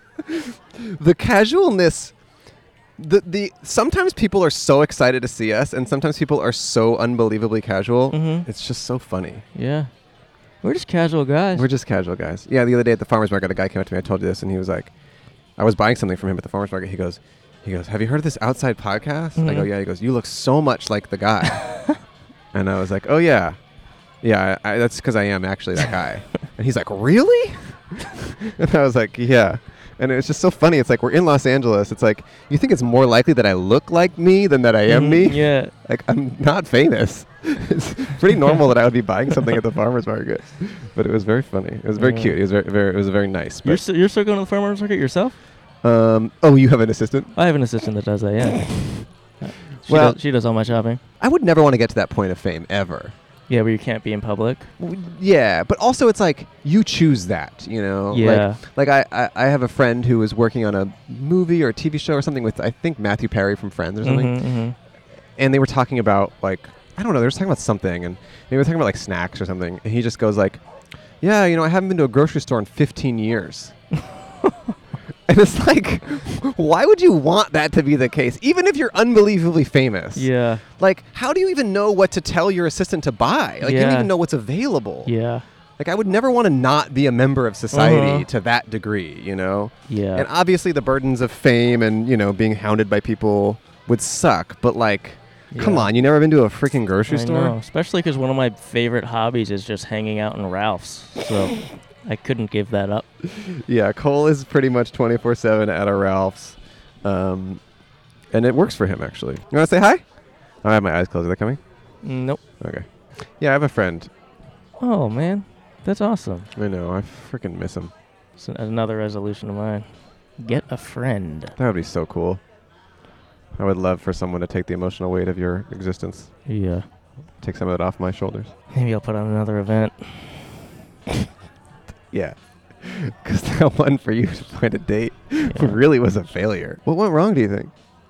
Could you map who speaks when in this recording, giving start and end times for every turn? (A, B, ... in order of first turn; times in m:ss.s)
0:00.3-0:02.1 A
0:03.0-0:09.4 A
0:08.1-0:08.5 B
0:09.5-0:09.9 B
0:10.6-0:11.7 B
0:11.5-0:14.9 A
0:15.6-0:21.9 A
0:19.4-0:19.7 B
0:22.5-0:23.6 A
0:24.2-0:43.8 A
0:34.9-0:35.7 B
0:42.0-0:42.4 B
0:43.6-0:45.3 B
0:45.8-0:47.3 A
0:47.4-0:51.0 B
0:49.9-0:50.2 A
0:51.2-0:53.1 A
0:53.5-0:54.7 B
0:54.8-1:04.4 A
0:58.1-0:58.6 B
1:04.0-1:04.8 B
1:05.4-1:10.6 A
1:11.2-1:13.7 A
1:15.3-1:25.1 A
1:20.1-1:20.6 B
1:23.6-1:24.1 B
1:25.0-1:25.4 B
1:25.8-1:37.6 A
1:27.7-1:28.3 B
1:29.9-1:30.3 B
1:35.5-1:35.9 B
1:37.1-1:43.1 B
1:43.3-1:47.6 A
1:48.3-1:51.6 A
1:52.0-1:52.4 B
1:52.6-1:54.1 A
1:54.8-1:56.5 B
1:56.6-1:57.9 A
1:58.4-2:01.5 B
2:01.6-2:02.4 A
2:03.5-2:06.4 A
2:06.4-2:06.9 B
2:07.4-2:08.5 A
2:08.7-2:10.5 B
2:12.1-2:17.7 A
2:15.4-2:15.8 B